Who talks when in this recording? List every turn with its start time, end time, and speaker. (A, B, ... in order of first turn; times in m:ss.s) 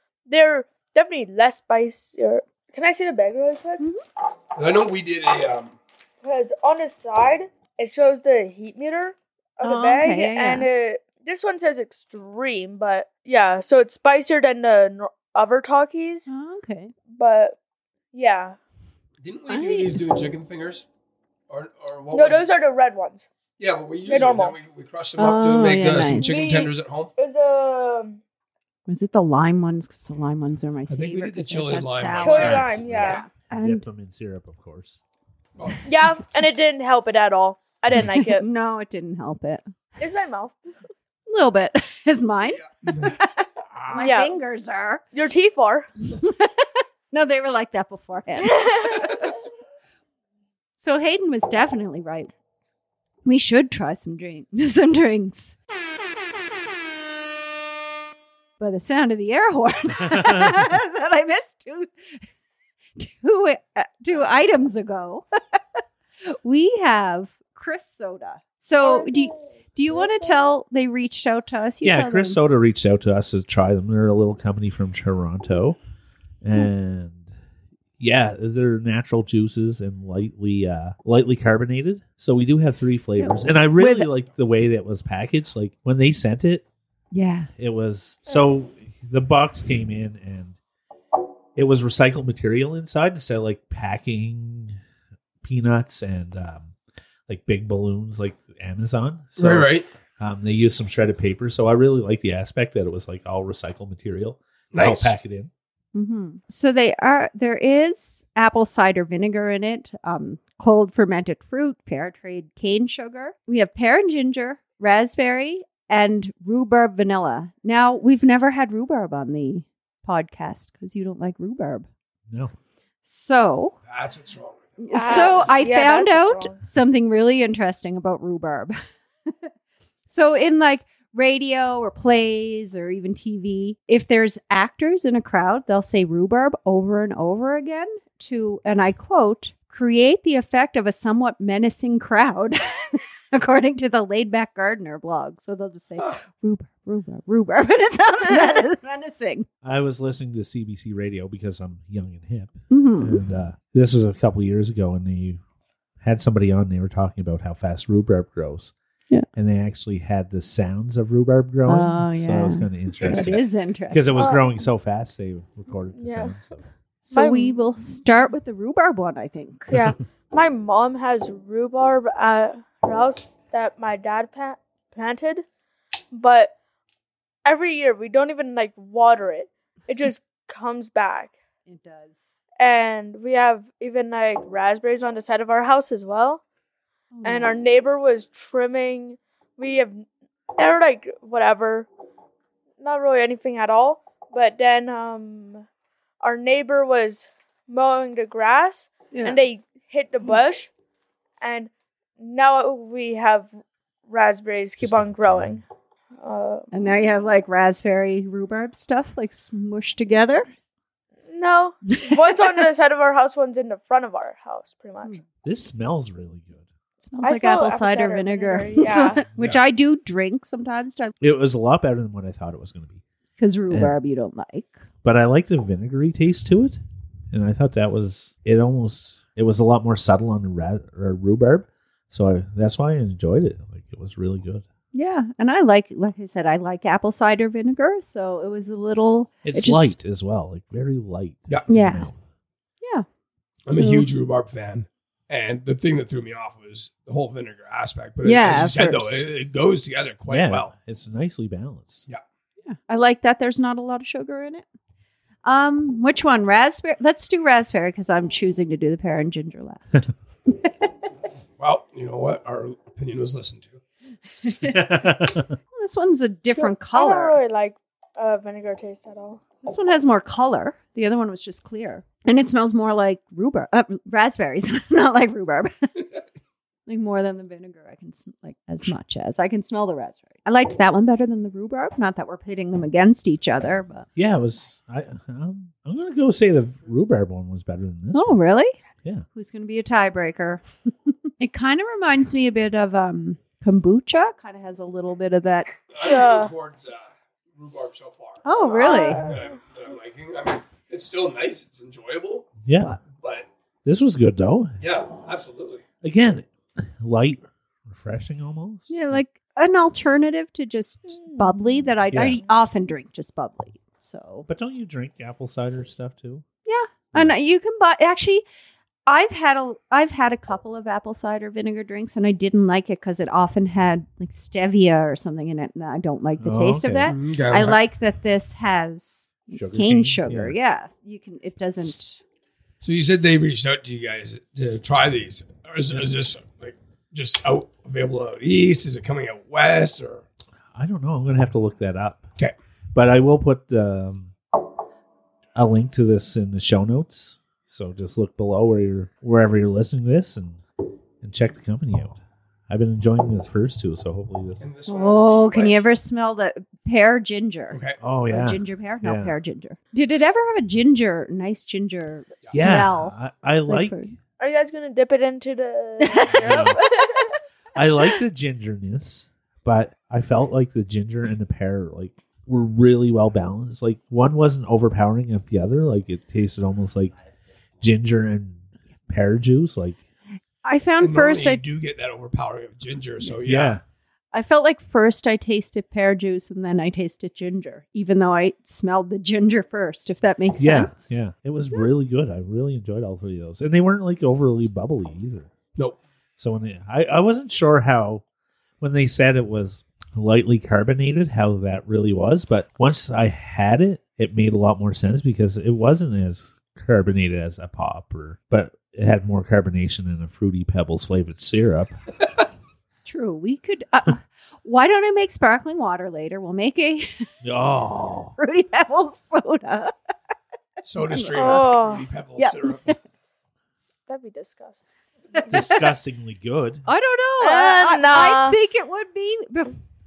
0:00.3-0:03.8 A
0:04.6-0:05.8 B
0:06.2-0:16.3 A
0:09.6-0:10.7 C
0:16.3-0:16.9 C
0:17.1-0:17.6 A
0:18.1-0:18.6 A
0:19.2-0:20.9 B
0:19.5-0:20.0 C
0:21.5-0:22.5 B
0:22.1-0:23.3 A
0:23.6-0:27.1 B
0:24.1-0:24.6 A
0:25.2-0:26.7 C
0:26.2-0:28.2 A
0:28.9-0:33.8 C
0:30.9-0:33.3 B
0:32.2-0:33.2 A
0:32.3-0:35.0 D
0:35.6-0:35.9 B
0:35.8-0:38.5 A
0:38.0-0:39.6 C
0:40.0-0:40.6 A
0:41.3-0:45.0 C
0:42.5-0:43.2 B
0:43.8-0:44.0 B
0:43.9-0:44.4 A
0:45.1-0:45.9 A
0:46.1-0:49.4 C
0:50.8-0:52.3 C
0:53.2-0:55.6 C
0:58.6-1:02.2 C
1:00.0-1:00.6 D
1:03.0-1:12.4 C
1:08.8-1:10.5 A
1:11.8-1:15.8 D
1:16.4-1:17.3 D
1:18.0-1:26.6 D
1:23.2-1:24.1 C
1:27.1-1:27.5 C
1:27.6-1:30.6 D
1:31.6-1:34.8 D
1:35.4-1:36.7 D
1:37.3-1:45.5 D
1:39.4-1:39.9 B
1:44.7-1:45.1 B
1:45.9-2:01.9 C
2:03.0-2:03.8 C
2:03.9-2:05.3 B
2:04.8-2:08.8 C
2:04.9-2:06.6 A
2:10.1-2:29.5 C
2:29.6-2:35.4 D
2:32.7-2:33.2 C
2:36.0-2:38.7 D
2:39.4-2:46.7 D
2:41.7-2:44.3 C
2:44.1-2:44.4 A
2:46.0-2:46.3 A
2:47.1-2:49.8 C
2:47.1-2:47.5 A
2:49.7-2:55.4 A
2:56.1-2:56.5 A
2:57.4-3:01.3 A
3:01.6-3:02.2 C
3:02.6-3:06.4 A
3:07.1-3:07.6 C
3:07.2-3:11.9 A
3:12.8-3:15.6 A
3:16.2-3:20.7 A
3:19.1-3:19.4 C
3:21.4-3:23.5 A
3:24.1-3:25.6 A
3:24.8-3:25.6 D
3:26.2-3:26.7 A
3:26.7-3:30.5 C
3:31.3-3:35.2 A
3:31.9-3:32.4 C
3:35.4-3:36.6 D
3:37.0-3:41.1 C
3:37.2-3:39.2 A
3:41.2-3:43.0 D
3:43.4-3:44.8 C
3:45.0-3:46.8 D
3:47.3-3:54.6 D
3:54.9-3:59.9 C
3:59.4-4:02.2 D
4:01.7-4:02.1 C
4:02.8-4:03.1 C
4:03.6-4:10.7 B
4:03.7-4:04.1 C
4:08.2-4:09.2 C
4:10.3-4:12.1 D
4:12.6-4:14.6 C
4:15.4-4:20.7 C
4:21.6-4:23.8 B
4:24.5-4:24.8 C
4:24.6-4:25.6 D
4:25.7-4:27.4 C
4:26.6-4:29.4 A
4:29.6-4:36.1 C
4:36.9-4:44.1 C
4:44.2-4:48.4 D
4:48.1-4:48.8 C
4:49.3-4:55.7 C
4:55.9-5:02.5 B
4:56.0-4:56.5 A
4:58.4-4:59.3 C
4:58.8-4:59.4 A
5:02.6-5:03.0 D
5:03.1-5:03.5 B
5:03.8-5:04.8 D
5:04.8-5:05.8 B
5:06.0-5:09.2 D
5:08.9-5:14.5 C
5:12.1-5:12.4 D
5:14.5-5:16.4 D
5:16.6-5:18.4 C
5:19.1-5:32.2 C
5:26.4-5:27.1 D
5:27.1-5:27.8 B
5:29.5-5:30.6 D
5:32.8-5:40.2 B
5:40.8-5:42.3 D
5:42.9-5:44.3 D
5:45.6-5:50.6 D
5:51.2-5:52.2 D
5:52.7-5:54.6 D
5:54.6-5:55.8 B
5:54.9-6:04.1 C
5:57.7-5:58.0 B
5:58.0-5:59.3 D
6:02.5-6:04.1 D
6:04.4-6:07.3 A
6:06.0-6:07.2 C
6:06.3-6:06.8 D
6:07.8-6:17.1 D
6:17.8-6:20.0 D
6:20.6-6:21.6 C
6:21.0-6:23.8 B
6:23.4-6:23.8 D
6:24.3-6:31.2 C
6:30.6-6:35.5 D
6:36.4-6:38.2 D
6:38.8-6:52.0 D
6:53.0-6:57.2 C
6:57.4-6:58.3 D
6:58.4-6:59.9 C
7:00.8-7:03.0 B
7:01.1-7:01.8 C
7:01.4-7:02.1 A
7:02.4-7:03.0 C
7:04.1-7:04.8 A
7:05.4-7:05.8 C
7:05.5-7:06.9 D
7:06.9-7:09.8 C
7:07.4-7:08.6 A